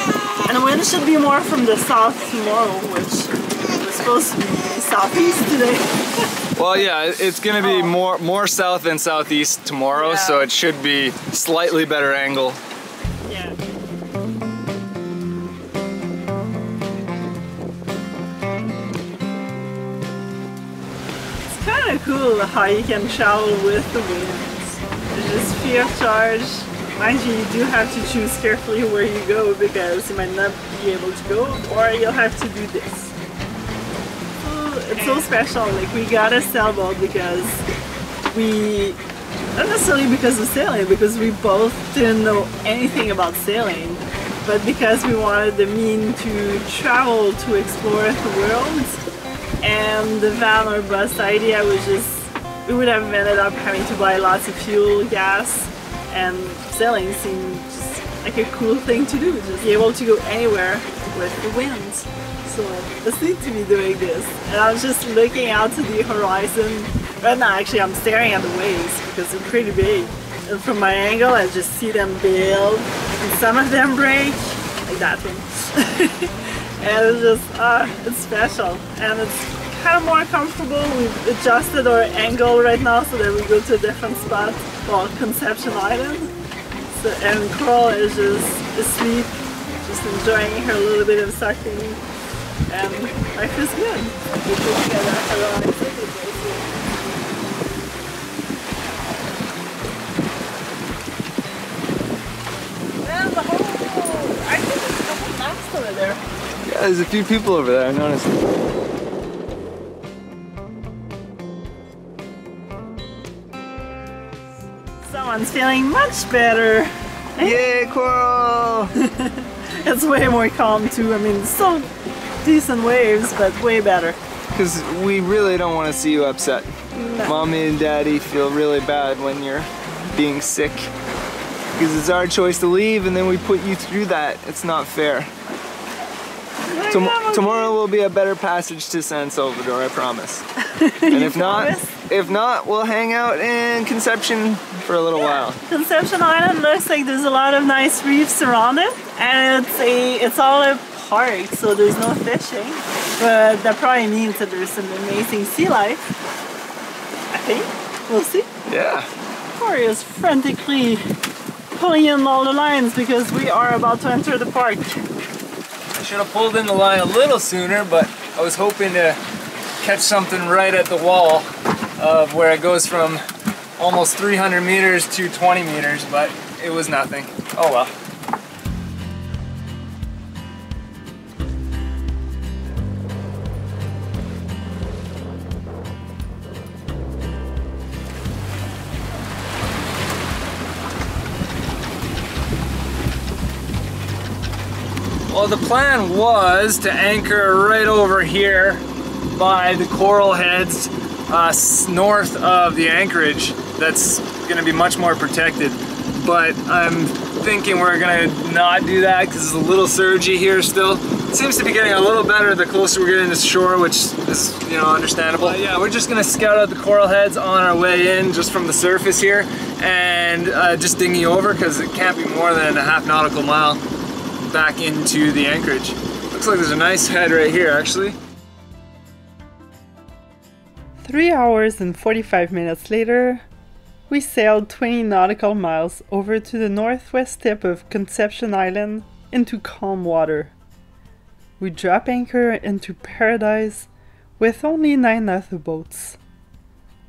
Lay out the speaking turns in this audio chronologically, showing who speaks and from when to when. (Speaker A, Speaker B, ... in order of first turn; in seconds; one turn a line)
Speaker A: 0.5-6.3
Speaker B: 6.6-12.6
Speaker A: 7.6-8.0
Speaker A: 9.9-10.5
Speaker A: 13.3-13.6
Speaker A: 21.5-33.1
Speaker A: 34.4-37.6
Speaker A: 38.3-39.0
Speaker A: 39.5-49.0
Speaker A: 49.6-86.3
Speaker A: 86.9-92.0
Speaker A: 92.7-96.8
Speaker A: 103.0-106.2
Speaker B: 106.6-108.5
Speaker A: 115.0-117.6
Speaker B: 117.4-119.0
Speaker A: 119.0-121.9
Speaker A: 122.4-124.2
Speaker B: 124.5-126.7
Speaker A: 127.0-127.5
Speaker B: 127.2-130.9
Speaker B: 131.8-135.3
Speaker A: 136.7-137.8
Speaker B: 136.9-140.4
Speaker A: 140.6-141.9
Speaker B: 141.1-145.6
Speaker A: 145.1-156.0
Speaker A: 157.3-158.5
Speaker B: 158.7-159.1
Speaker A: 159.6-161.1
Speaker A: 161.7-165.0
Speaker B: 166.0-169.2
Speaker B: 169.8-173.2
Speaker B: 173.8-177.9
Speaker B: 195.3-223.8
Speaker B: 224.5-228.2
Speaker C: 231.0-233.4
Speaker C: 234.1-240.5
Speaker C: 241.6-246.2